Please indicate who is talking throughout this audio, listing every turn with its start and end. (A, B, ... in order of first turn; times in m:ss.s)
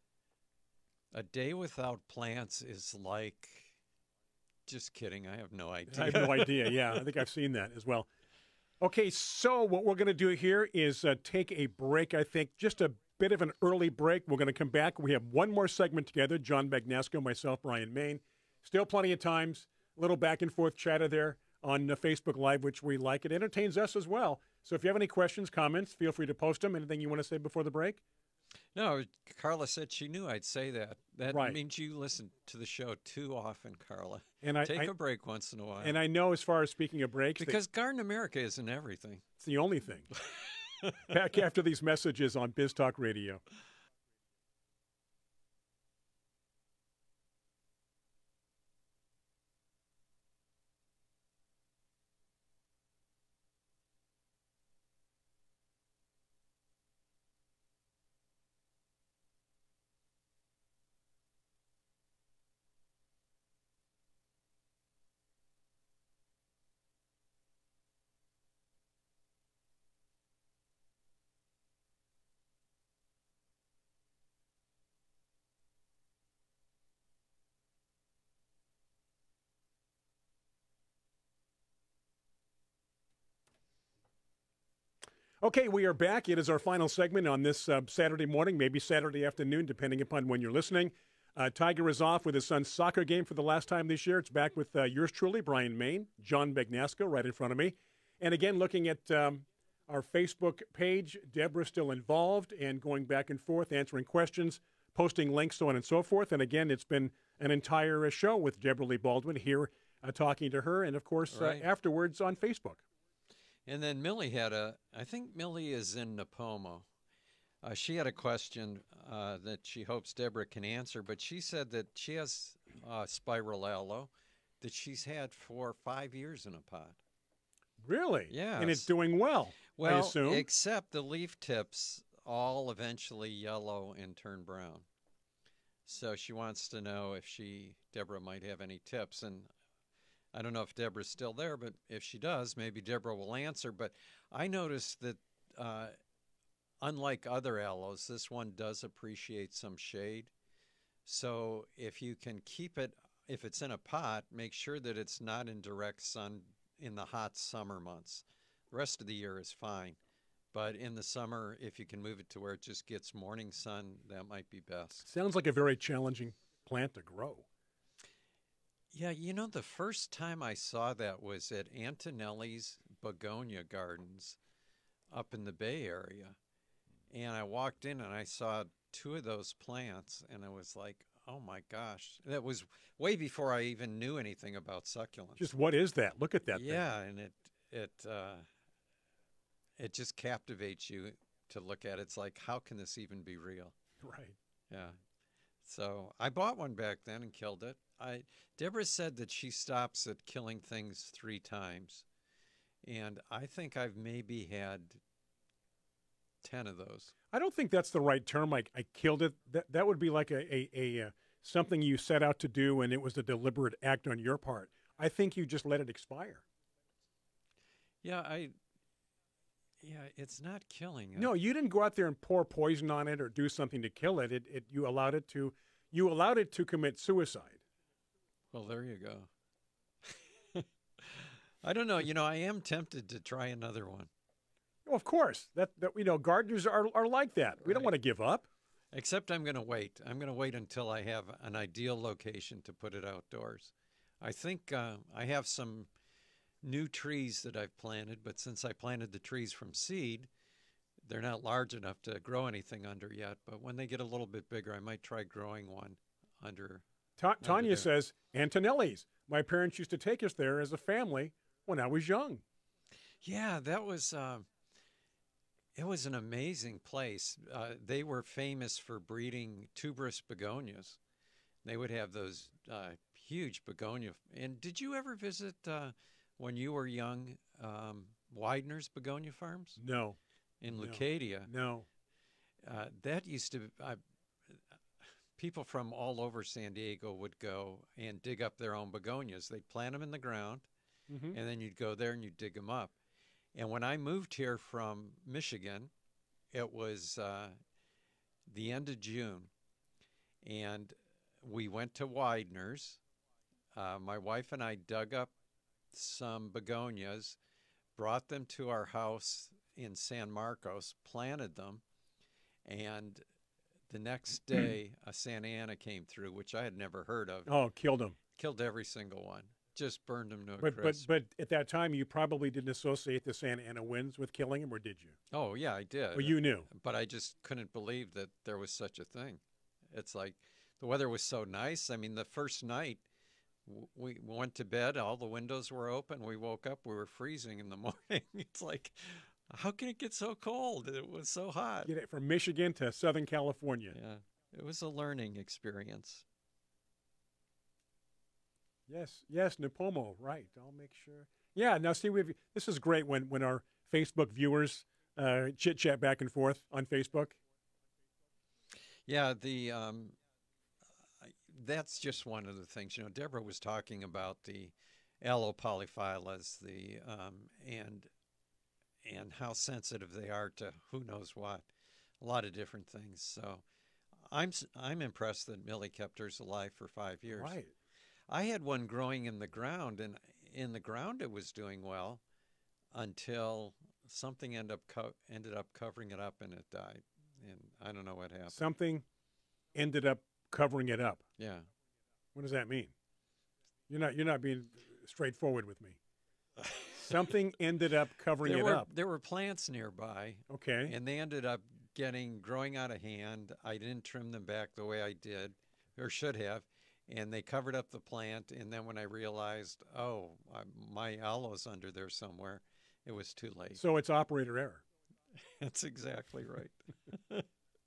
0:01.1-0:03.8 A
0:04.7-0:06.8 A
0:05.9-0:08.1 B
0:08.8-0:28.0 B
0:28.7-0:36.0 A
0:31.3-0:31.6 B
0:34.4-0:34.9 B
0:35.8-0:37.6 B
0:37.4-0:39.2 A
0:39.4-0:40.1 B
0:40.3-0:40.9 A
0:41.1-0:43.4 B
1:25.4-1:52.8 B
1:51.3-1:51.7 A
1:53.7-1:56.9 A
1:57.6-2:04.1 A
2:04.6-2:07.0 A
2:07.8-2:10.4 B
2:08.3-2:08.9 A
2:09.8-2:14.8 A
2:15.9-2:19.5 A
2:20.3-2:26.0 A
2:26.8-2:30.3 A
2:31.1-2:40.0 A
2:40.5-2:45.1 A
2:45.0-2:47.4 B
2:48.9-2:54.4 A
2:55.1-2:56.4 A
2:57.1-3:05.5 A
3:05.4-3:06.8 B
3:06.5-3:08.4 A
3:09.8-3:13.7 A
3:14.0-3:14.4 B
3:15.7-3:22.0 A
3:22.8-3:25.0 A
3:26.4-3:27.1 A
3:27.3-3:36.4 B
3:38.0-3:38.5 A
3:39.8-3:41.3 A
3:41.2-3:47.6 B
3:48.5-3:49.3 A
3:50.1-3:54.1 A
3:54.9-3:58.5 B
3:58.9-4:05.9 A
4:06.6-4:10.3 A
4:11.0-4:16.8 A
4:17.2-4:22.4 B
4:17.4-4:17.9 A
4:23.2-4:24.5 A
4:25.7-4:31.0 A
4:31.6-4:39.8 A
4:39.8-4:40.2 B
4:40.6-4:41.5 A
4:40.7-4:41.9 B
4:42.6-4:44.0 A
4:45.4-4:50.7 A
4:51.1-4:51.4 B
4:51.3-4:52.9 A
4:53.6-4:55.9 A
4:56.5-4:57.5 A
4:58.5-4:59.5 A
5:00.4-5:03.0 A
5:03.7-5:05.3 A
5:05.9-5:07.4 A
5:08.0-5:11.8 A
5:12.7-5:13.2 A
5:13.9-5:17.5 A
5:17.5-5:18.2 B
5:18.4-5:21.1 A
5:20.6-5:25.2 B
5:25.3-5:29.4 A
5:26.1-5:26.7 B
5:29.9-5:33.0 A
5:33.7-5:41.9 A
5:41.8-5:44.0 B
5:43.9-5:46.2 A
5:48.9-5:57.4 B
5:59.1-6:00.2 A
6:01.2-6:08.1 A
6:09.0-6:11.7 A
6:12.2-6:13.6 A
6:14.3-6:17.6 A
6:17.4-6:17.7 B
6:18.3-6:22.2 A
6:22.9-6:28.6 A
6:28.5-6:29.0 B
6:29.7-6:31.2 B
6:31.4-6:31.7 A
6:32.4-6:32.9 B
6:33.9-6:36.0 B
6:36.6-6:37.0 A
6:37.0-6:38.9 B
6:38.4-6:53.8 A
6:40.5-6:40.9 B
6:53.8-6:54.8 B
6:55.4-6:57.4 A